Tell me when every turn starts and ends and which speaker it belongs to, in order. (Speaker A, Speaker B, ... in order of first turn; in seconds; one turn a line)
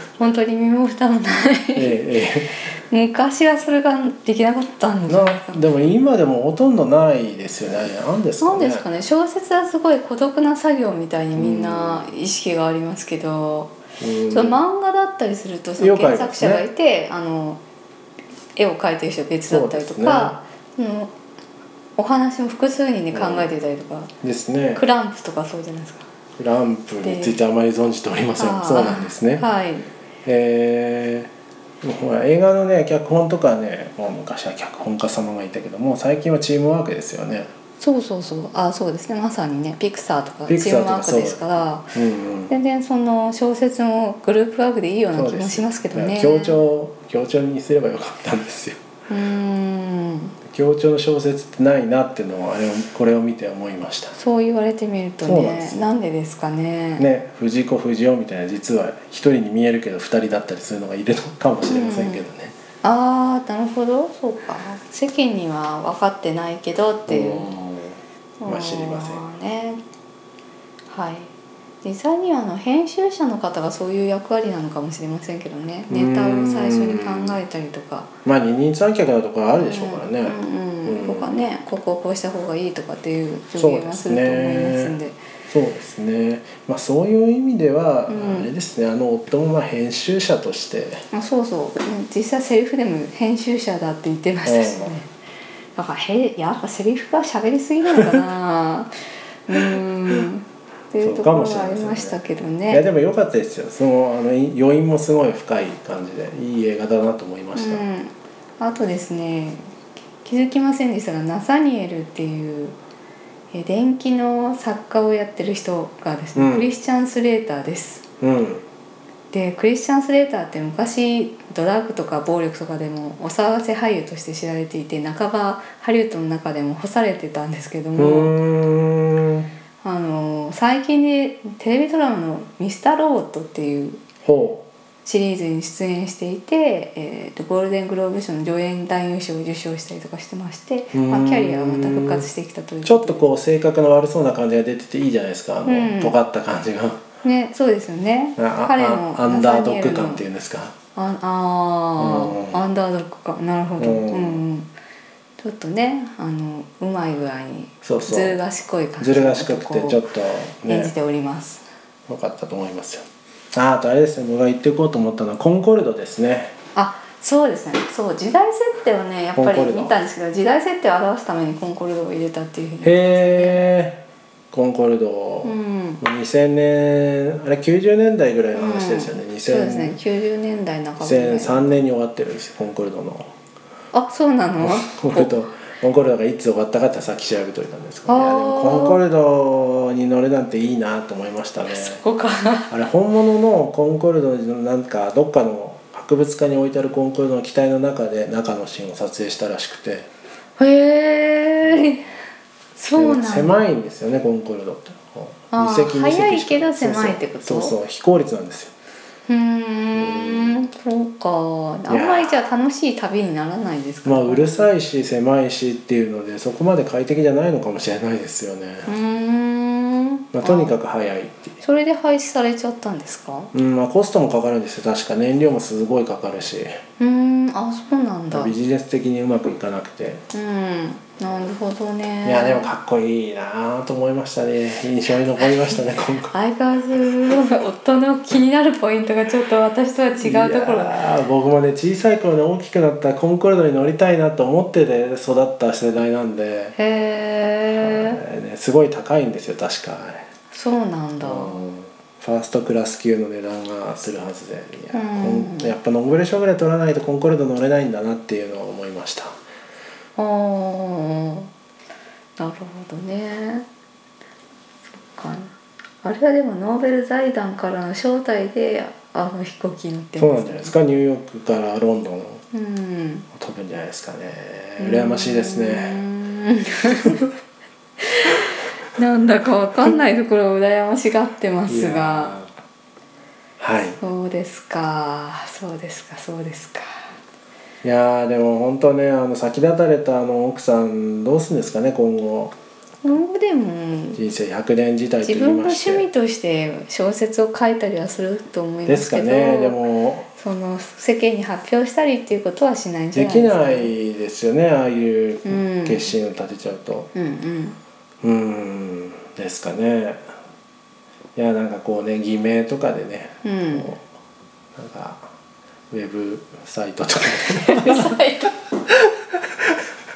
Speaker A: 0.2-2.0
Speaker B: 1.7-2.6
Speaker A: 2.9-5.6
Speaker B: 5.1-8.8
Speaker A: 8.4-13.7
Speaker B: 11.3-12.1
Speaker B: 14.0-14.6
Speaker A: 14.3-17.6
Speaker B: 15.8-16.6
Speaker A: 18.6-21.1
Speaker B: 19.5-20.4
Speaker A: 22.0-24.1
Speaker B: 23.1-23.5
Speaker B: 24.2-24.8
Speaker A: 24.7-26.1
Speaker B: 26.4-29.4
Speaker A: 27.0-27.3
Speaker A: 28.4-29.9
Speaker B: 30.2-31.3
Speaker B: 31.8-37.5
Speaker A: 37.8-41.9
Speaker B: 40.5-42.5
Speaker A: 42.5-46.6
Speaker B: 45.1-48.8
Speaker A: 49.1-50.3
Speaker B: 50.5-54.1
Speaker A: 54.1-57.0
Speaker B: 55.2-55.9
Speaker B: 57.0-62.5
Speaker A: 61.6-62.2
Speaker A: 62.8-67.5
Speaker B: 67.1-69.2
Speaker A: 68.4-69.8
Speaker A: 70.9-71.3
Speaker A: 71.8-78.1
Speaker B: 75.9-77.4
Speaker B: 78.2-81.4
Speaker A: 79.5-85.2
Speaker B: 83.5-84.9
Speaker B: 85.5-91.0
Speaker A: 88.1-88.5
Speaker A: 91.1-95.1
Speaker B: 94.4-94.9
Speaker A: 95.8-98.9
Speaker A: 99.5-102.8
Speaker B: 101.0-102.2
Speaker B: 102.7-107.8
Speaker A: 107.5-109.6
Speaker A: 110.2-112.7
Speaker A: 113.5-118.0
Speaker B: 116.3-116.7
Speaker B: 118.2-118.6
Speaker A: 119.3-128.3
Speaker B: 128.0-129.5
Speaker A: 129.8-134.0
Speaker B: 134.2-134.6
Speaker A: 135.0-143.3
Speaker B: 140.9-142.2
Speaker B: 142.8-147.0
Speaker A: 145.7-146.2
Speaker A: 147.2-150.2
Speaker B: 148.4-150.7
Speaker A: 150.9-154.7
Speaker B: 152.0-152.6
Speaker B: 153.8-154.4
Speaker A: 155.4-160.0
Speaker B: 157.8-158.4
Speaker B: 159.0-160.9
Speaker A: 160.6-161.6
Speaker B: 162.1-166.5
Speaker A: 166.7-173.6
Speaker B: 169.3-169.9
Speaker B: 172.8-174.0
Speaker B: 174.5-179.9
Speaker A: 175.4-176.0
Speaker A: 178.5-181.7
Speaker B: 181.0-183.3
Speaker A: 183.9-185.4
Speaker B: 184.6-192.0
Speaker A: 188.1-189.0
Speaker A: 191.7-192.7
Speaker B: 192.7-200.1
Speaker A: 200.6-202.0
Speaker B: 201.6-202.0
Speaker A: 202.8-203.6
Speaker B: 202.9-208.7
Speaker A: 205.5-207.8
Speaker A: 209.3-214.7
Speaker B: 209.9-210.7
Speaker B: 211.9-212.3
Speaker B: 214.0-218.9
Speaker A: 218.8-220.7
Speaker B: 220.3-221.6
Speaker A: 221.6-223.5
Speaker B: 223.5-226.8
Speaker A: 227.0-228.5
Speaker B: 228.3-230.2
Speaker A: 230.3-232.7
Speaker B: 232.2-236.3
Speaker A: 236.3-241.0
Speaker B: 240.2-246.8
Speaker A: 246.8-248.2
Speaker B: 247.8-250.2
Speaker A: 250.5-251.6
Speaker B: 251.2-259.3
Speaker A: 254.9-255.7
Speaker A: 260.2-261.5
Speaker A: 262.4-263.6
Speaker A: 265.1-270.7
Speaker B: 270.2-272.4
Speaker A: 272.5-273.3
Speaker B: 273.3-276.0
Speaker A: 274.8-277.2
Speaker A: 278.0-282.3
Speaker B: 281.7-282.5
Speaker B: 283.6-284.0
Speaker A: 284.0-287.1
Speaker B: 287.8-292.5
Speaker A: 293.0-294.2
Speaker B: 294.1-296.1
Speaker A: 295.2-299.8
Speaker B: 298.9-300.3
Speaker A: 300.4-303.9
Speaker B: 303.1-307.1
Speaker A: 305.4-306.1
Speaker A: 307.1-307.8
Speaker B: 308.2-310.2
Speaker B: 311.4-314.0
Speaker A: 313.4-313.9
Speaker B: 314.8-315.3
Speaker B: 315.9-318.2
Speaker A: 317.4-318.5
Speaker B: 318.9-319.8